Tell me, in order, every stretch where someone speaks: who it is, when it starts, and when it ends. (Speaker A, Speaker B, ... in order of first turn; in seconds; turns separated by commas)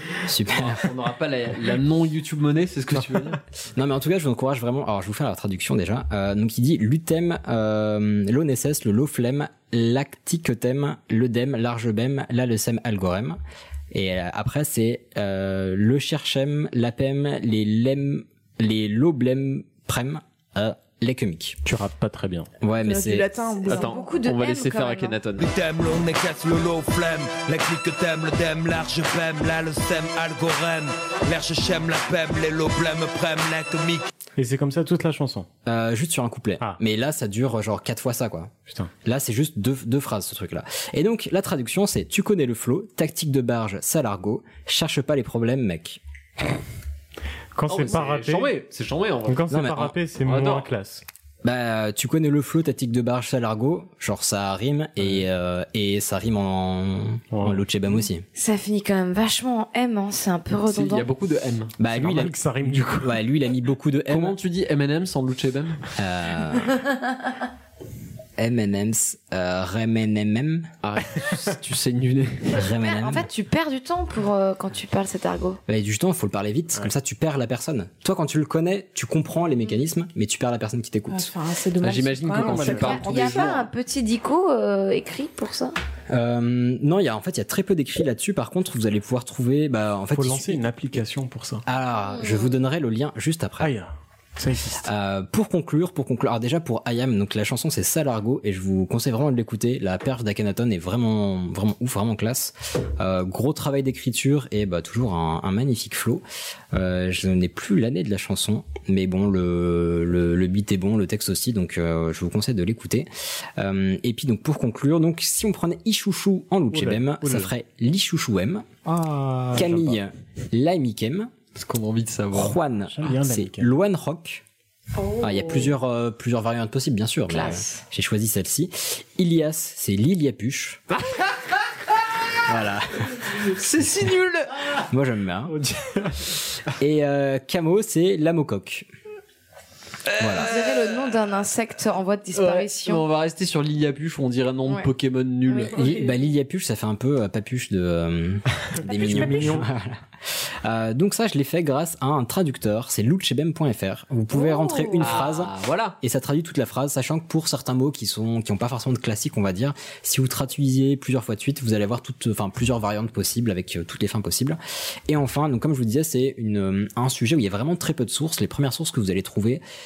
Speaker A: 0.2-0.8, Speaker B: 0.5-3.4, Speaker A: 3.7-13.4, Speaker A: 13.9-21.6, Speaker C: 21.6-22.5, Speaker A: 22.6-23.3, Speaker D: 22.8-24.0, Speaker B: 23.6-25.5, Speaker E: 23.6-25.2, Speaker F: 25.4-34.0, Speaker C: 34.4-35.5, Speaker A: 35.6-38.5, Speaker A: 39.0-46.0, Speaker C: 47.5-48.5, Speaker B: 47.7-49.5, Speaker C: 49.2-51.0, Speaker A: 49.5-49.9, Speaker B: 50.2-50.7, Speaker A: 51.4-58.2, Speaker C: 57.3-57.6, Speaker E: 58.3-61.1, Speaker B: 60.7-61.7, Speaker A: 61.8-64.3, Speaker C: 61.9-63.1, Speaker B: 64.1-65.8, Speaker A: 66.0-66.8, Speaker A: 68.4-70.7, Speaker B: 70.8-72.6, Speaker A: 72.5-73.2, Speaker E: 72.7-75.6, Speaker A: 75.7-81.3, Speaker D: 81.1-83.7, Speaker B: 81.8-83.6, Speaker C: 82.3-83.0, Speaker E: 82.7-85.7, Speaker A: 86.1-90.7, Speaker C: 90.1-91.6, Speaker A: 91.7-93.7, Speaker E: 92.0-92.5, Speaker C: 93.6-94.9, Speaker A: 94.8-118.7, Speaker C: 116.7-117.5, Speaker C: 118.8-120.0, Speaker A: 119.5-121.3, Speaker B: 121.5-122.6, Speaker A: 122.3-124.4, Speaker C: 122.9-123.7, Speaker E: 125.0-125.4, Speaker A: 125.2-130.8, Speaker E: 127.3-127.8, Speaker A: 132.4-133.3, Speaker B: 133.3-134.6, Speaker A: 134.8-135.5, Speaker C: 135.5-136.3, Speaker A: 136.7-138.9, Speaker A: 140.2-140.5, Speaker E: 140.3-143.0, Speaker B: 142.3-145.8, Speaker E: 145.5-145.7, Speaker A: 145.7-169.6, Speaker C: 148.7-149.7, Speaker E: 154.3-155.1, Speaker B: 154.9-155.9